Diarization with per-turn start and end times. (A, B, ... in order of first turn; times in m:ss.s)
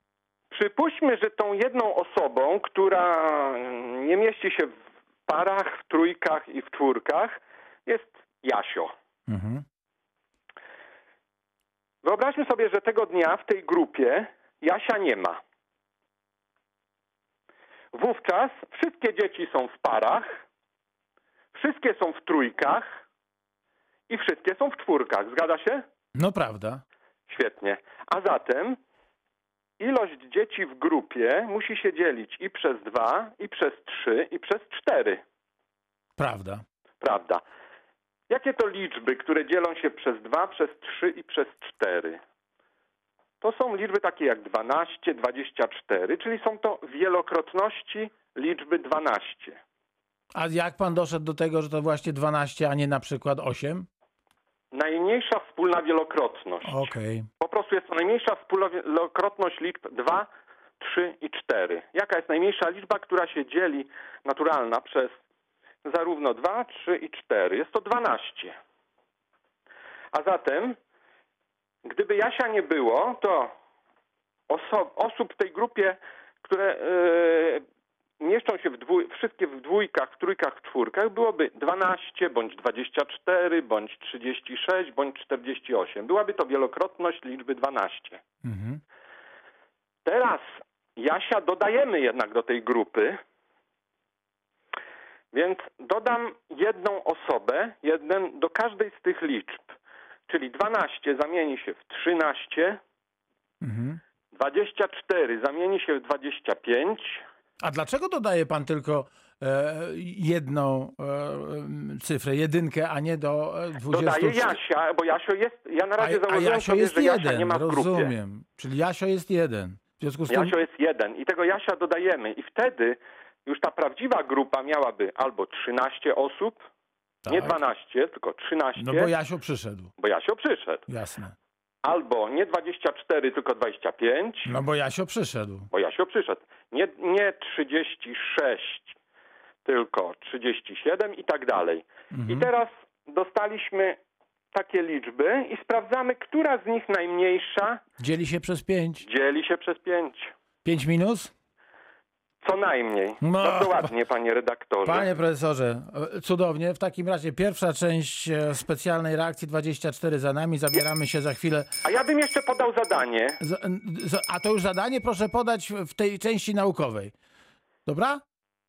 0:00.5-0:04.7 A
0:05.3-0:08.9 A
0:09.3-0:09.6 B
0:12.0-0:15.4 A
0:17.9-0:20.3 A
0:21.5-0:23.0 A
0:24.1-0:25.8 A
0:26.1-0:26.8 B
0:27.3-0:28.8 A
0:29.8-0:35.2 A
0:36.2-0:36.6 B
0:37.0-0:37.4 A
0:38.3-0:42.2 A
0:43.4-0:49.6 A
0:50.3-0:53.8 B
0:54.7-1:00.3 A
0:56.6-0:57.3 B
1:00.8-1:05.1 A
1:05.8-1:08.5 A
1:10.1-1:10.8 A
1:11.8-1:13.5 A
1:14.5-1:17.6 A
1:18.2-1:28.2 A
1:28.4-1:28.8 B
1:30.0-1:33.2 A
1:35.3-1:39.7 A
1:40.3-1:42.8 A
1:43.6-1:44.0 B
1:44.3-1:47.2 A
1:47.6-1:54.6 B
1:53.9-1:58.1 A
1:56.0-2:00.6 B
2:00.3-2:06.6 A
2:07.2-2:07.6 B
2:07.3-2:09.1 A
2:08.8-2:09.9 B
2:10.0-2:10.8 A
2:10.9-2:11.3 B
2:11.8-2:14.5 A
2:14.4-2:15.7 B
2:15.7-2:19.0 A
2:19.6-2:24.0 A
2:22.1-2:22.5 B
2:24.5-2:27.8 A
2:28.0-2:29.0 B
2:29.0-2:30.3 A
2:30.6-2:31.3 B
2:32.4-2:35.1 A
2:33.2-2:33.9 B
2:34.8-2:41.7 B
2:41.8-2:43.4 A
2:43.4-2:47.1 B
2:47.8-2:48.2 B